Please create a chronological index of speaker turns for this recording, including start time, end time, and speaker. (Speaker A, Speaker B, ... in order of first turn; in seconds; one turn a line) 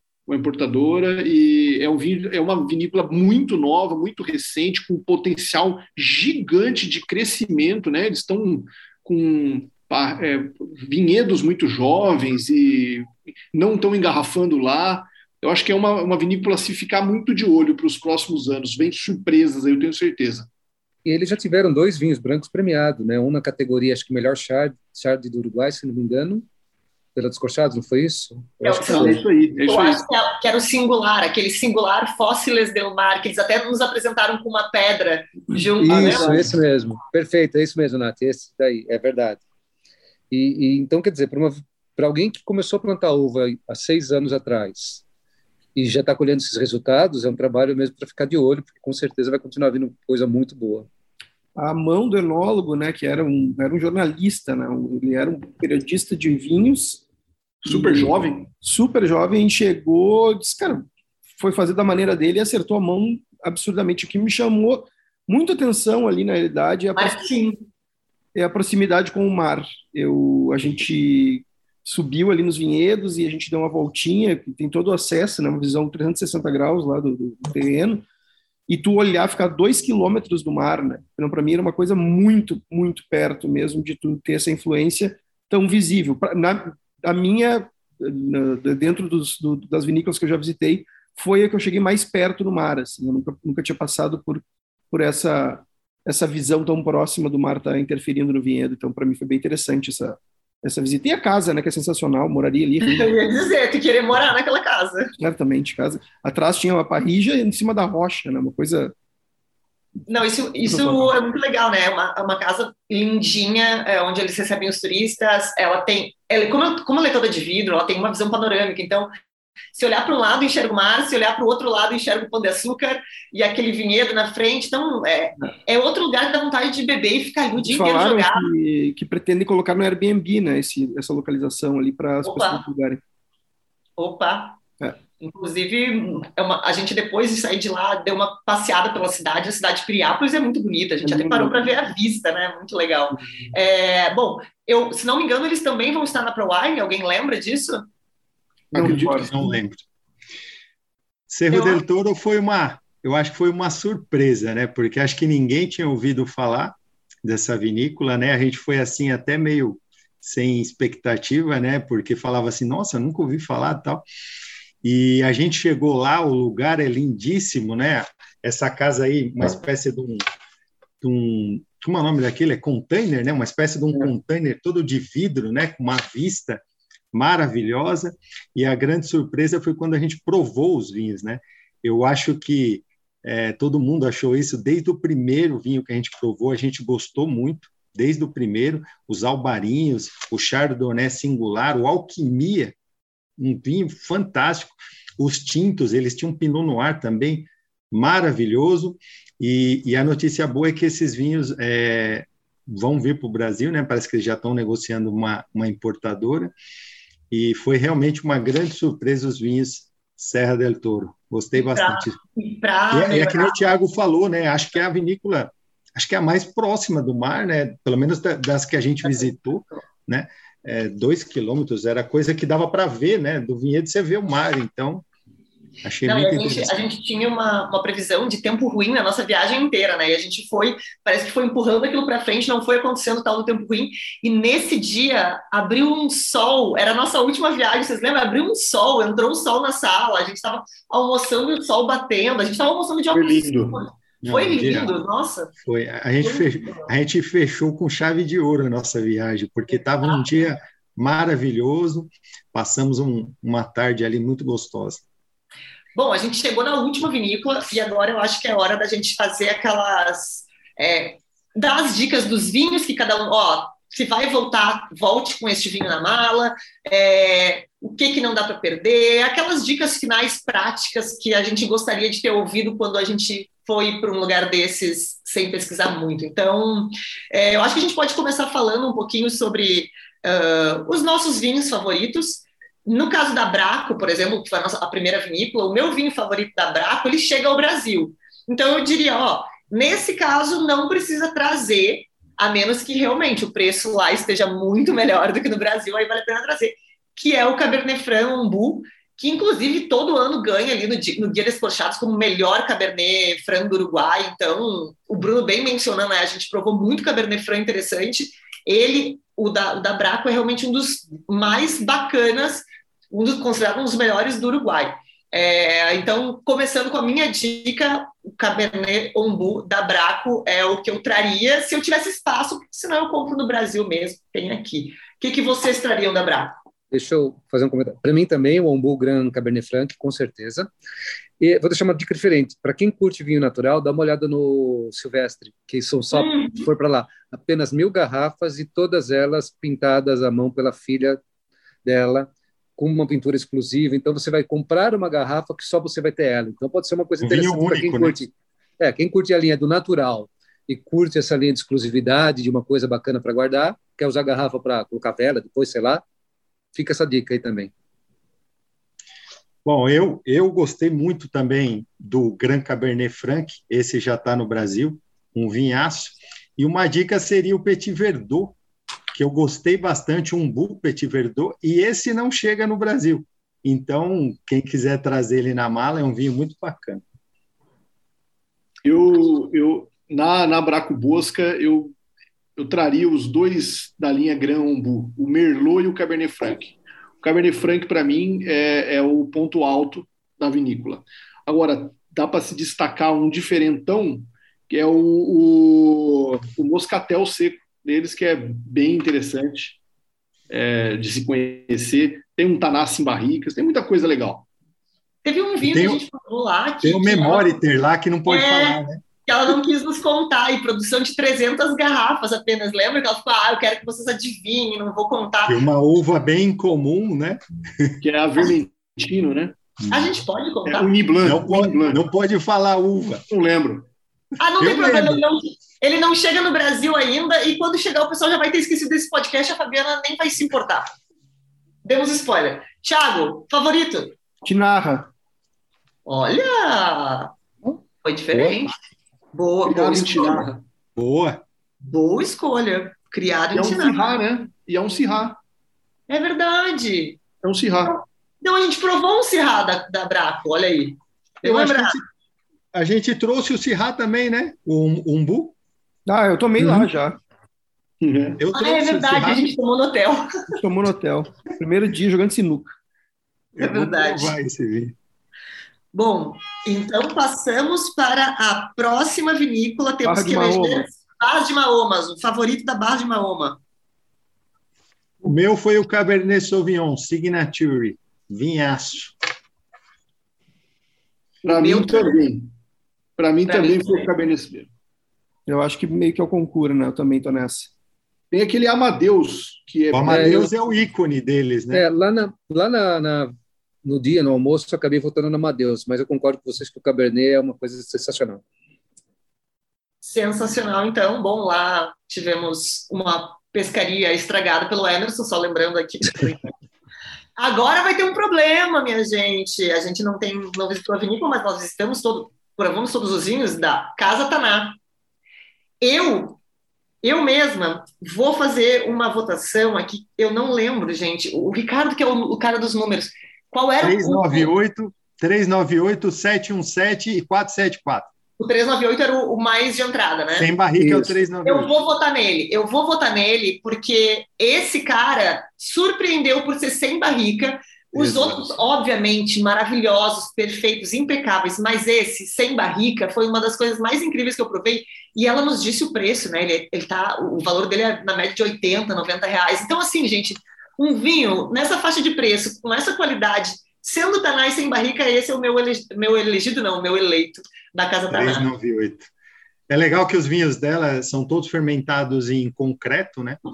Speaker A: 0.3-20.5
Speaker B: 21.1-26.5
Speaker B: 27.1-29.2
Speaker C: 28.6-36.5
Speaker A: 28.8-30.1
Speaker B: 35.8-39.4
Speaker A: 35.9-36.5
Speaker B: 40.3-45.0
Speaker B: 45.8-50.9
Speaker D: 51.6-57.0
Speaker A: 57.6-58.5
Speaker D: 57.7-67.3
Speaker C: 67.0-67.6
Speaker D: 68.3-78.0
Speaker D: 78.7-103.1
Speaker C: 102.8-105.1
Speaker D: 105.2-108.9
Speaker C: 110.1-119.1
Speaker D: 110.7-111.1
Speaker C: 119.7-128.5
Speaker D: 127.6-133.0
Speaker C: 132.2-132.6
Speaker C: 134.0-134.6
Speaker C: 135.2-147.8
Speaker D: 141.0-141.6
Speaker A: 148.7-149.3
Speaker D: 148.8-149.5
Speaker E: 149.2-149.8
Speaker E: 151.3-164.0
Speaker C: 151.5-151.8
Speaker E: 164.8-170.2
Speaker E: 171.0-192.8
Speaker E: 193.4-206.5
Speaker E: 207.3-212.2
Speaker C: 211.6-213.6
Speaker E: 212.9-225.1
Speaker C: 219.0-219.8
Speaker E: 225.8-226.8
Speaker C: 226.0-245.5
Speaker A: 243.1-243.9
Speaker E: 244.2-244.9
Speaker E: 245.6-255.0
Speaker C: 246.2-246.8
Speaker C: 250.0-250.2
Speaker C: 255.9-326.6
Speaker B: 326.9-330.7
Speaker B: 331.4-341.2
Speaker C: 336.1-336.7
Speaker B: 341.9-356.0
Speaker E: 347.2-348.2
Speaker B: 356.7-357.7
Speaker E: 359.6-368.6
Speaker E: 369.1-377.0
Speaker A: 378.8-381.9
Speaker A: 382.6-399.8
Speaker A: 400.5-404.5
Speaker C: 405.2-407.6
Speaker E: 405.6-406.0
Speaker E: 406.8-409.0
Speaker C: 408.3-415.6
Speaker E: 415.4-418.0
Speaker A: 418.0-419.6
Speaker E: 419.8-420.1
Speaker C: 419.9-420.9
Speaker A: 420.6-422.0
Speaker E: 421.2-423.2
Speaker A: 423.3-423.9
Speaker C: 424.4-430.9
Speaker E: 424.6-425.2
Speaker C: 431.9-434.1
Speaker D: 434.4-435.1
Speaker C: 436.1-438.7
Speaker E: 438.3-438.6
Speaker C: 439.3-440.5
Speaker A: 439.6-440.6
Speaker E: 441.0-441.4
Speaker C: 441.8-444.1
Speaker A: 443.5-445.4
Speaker C: 446.1-447.2
Speaker A: 447.4-448.0
Speaker C: 447.8-452.0
Speaker E: 451.4-452.0
Speaker E: 452.7-455.6
Speaker D: 456.1-457.2
Speaker A: 458.0-458.4
Speaker E: 458.4-459.5
Speaker C: 458.6-460.3
Speaker D: 460.6-462.7
Speaker E: 463.6-465.0
Speaker C: 463.6-464.4
Speaker C: 465.9-473.6
Speaker D: 470.0-470.9
Speaker E: 475.2-479.1
Speaker A: 481.4-482.5
Speaker C: 481.5-482.2
Speaker A: 483.2-484.7
Speaker C: 483.5-484.1
Speaker D: 485.5-487.7
Speaker A: 488.3-490.5
Speaker E: 489.9-491.9
Speaker B: 490.1-490.5
Speaker B: 491.7-498.4
Speaker C: 500.0-506.5
Speaker C: 507.4-514.8
Speaker C: 515.8-516.4
Speaker C: 517.0-524.5
Speaker E: 523.8-528.1
Speaker C: 528.4-530.5
Speaker E: 530.4-531.8
Speaker B: 530.8-531.1
Speaker C: 531.5-558.5
Speaker E: 538.0-538.6
Speaker E: 558.1-559.1
Speaker E: 559.7-563.4